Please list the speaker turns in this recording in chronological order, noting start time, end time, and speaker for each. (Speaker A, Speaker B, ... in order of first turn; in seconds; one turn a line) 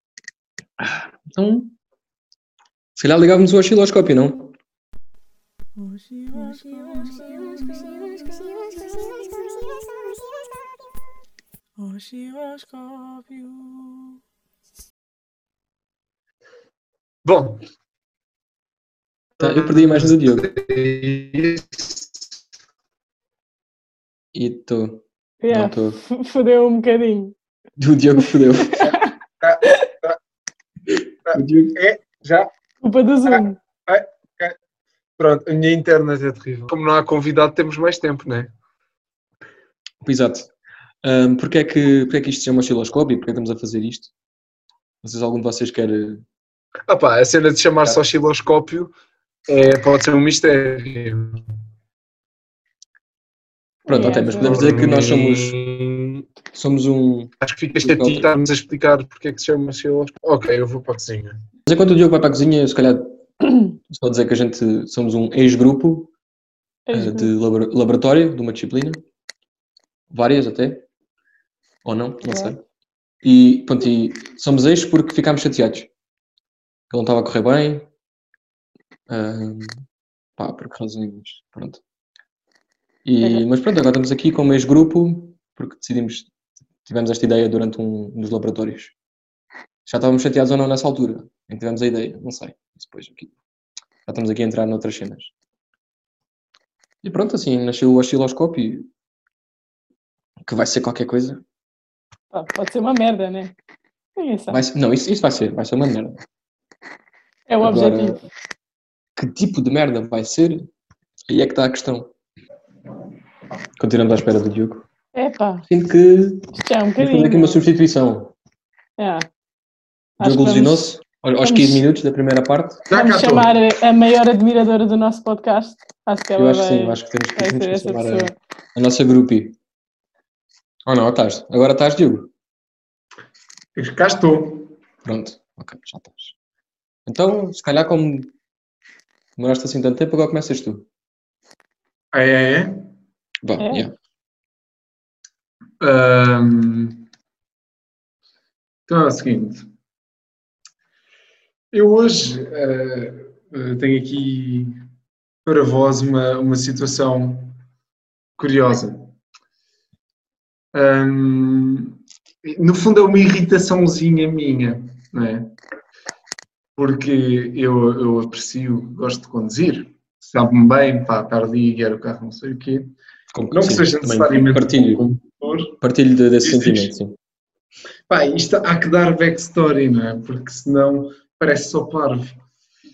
Speaker A: 0.8-1.7
Speaker A: 3.0-4.5
Speaker B: 6.1-8.5
Speaker B: 11.8-13.9
Speaker C: 17.2-17.6
Speaker C: 19.4-22.1
Speaker A: 19.4-20.5
Speaker A: 24.3-26.0
Speaker B: 25.4-27.3
Speaker A: 27.8-28.9
Speaker C: 28.8-30.2
Speaker C: 31.3-32.5
Speaker A: 31.3-31.8
Speaker B: 32.8-33.6
Speaker C: 33.3-34.6
Speaker C: 35.2-38.5
Speaker A: 40.0-40.5
Speaker A: 41.0-44.1
Speaker A: 45.0-46.2
Speaker C: 46.9-48.9
Speaker C: 49.5-51.4
Speaker A: 53.9-55.6
Speaker B: 53.9-54.6
Speaker C: 53.9-56.2
Speaker A: 56.5-58.3
Speaker C: 57.4-61.4
Speaker A: 61.7-66.1
Speaker B: 66.9-67.3
Speaker A: 66.9-69.0
Speaker A: 70.1-70.8
Speaker A: 71.8-72.6
Speaker B: 72.2-72.6
Speaker A: 73.2-75.9
Speaker A: 76.9-77.9
Speaker A: 79.1-79.8
Speaker A: 80.4-81.8
Speaker A: 83.0-86.3
Speaker B: 83.2-83.5
Speaker A: 86.8-88.9
Speaker A: 89.9-93.3
Speaker A: 94.1-95.3
Speaker A: 97.0-98.9
Speaker A: 100.5-101.4
Speaker B: 102.3-103.5
Speaker B: 104.2-104.6
Speaker A: 104.5-106.2
Speaker B: 107.5-108.2
Speaker A: 107.6-108.2
Speaker A: 109.2-110.7
Speaker A: 111.3-112.1
Speaker A: 113.8-114.8
Speaker B: 115.2-115.7
Speaker A: 115.7-116.5
Speaker B: 116.5-117.7
Speaker A: 117.0-118.3
Speaker B: 119.0-119.2
Speaker B: 120.2-120.8
Speaker A: 120.2-122.8
Speaker B: 121.4-121.8
Speaker C: 122.9-123.5
Speaker B: 122.9-128.3
Speaker A: 126.4-129.6
Speaker A: 130.9-132.3
Speaker C: 133.8-134.7
Speaker A: 135.1-136.4
Speaker A: 137.1-138.3
Speaker A: 139.4-140.9
Speaker C: 142.1-142.8
Speaker A: 143.4-143.9
Speaker B: 143.6-143.9
Speaker C: 145.8-147.0
Speaker C: 148.9-149.7
Speaker C: 151.7-154.8
Speaker C: 155.4-157.5
Speaker C: 158.4-159.1
Speaker C: 160.7-165.5
Speaker C: 166.8-172.9
Speaker A: 173.3-175.0
Speaker C: 173.5-175.8
Speaker A: 175.8-177.2
Speaker C: 176.4-176.9
Speaker C: 178.1-182.4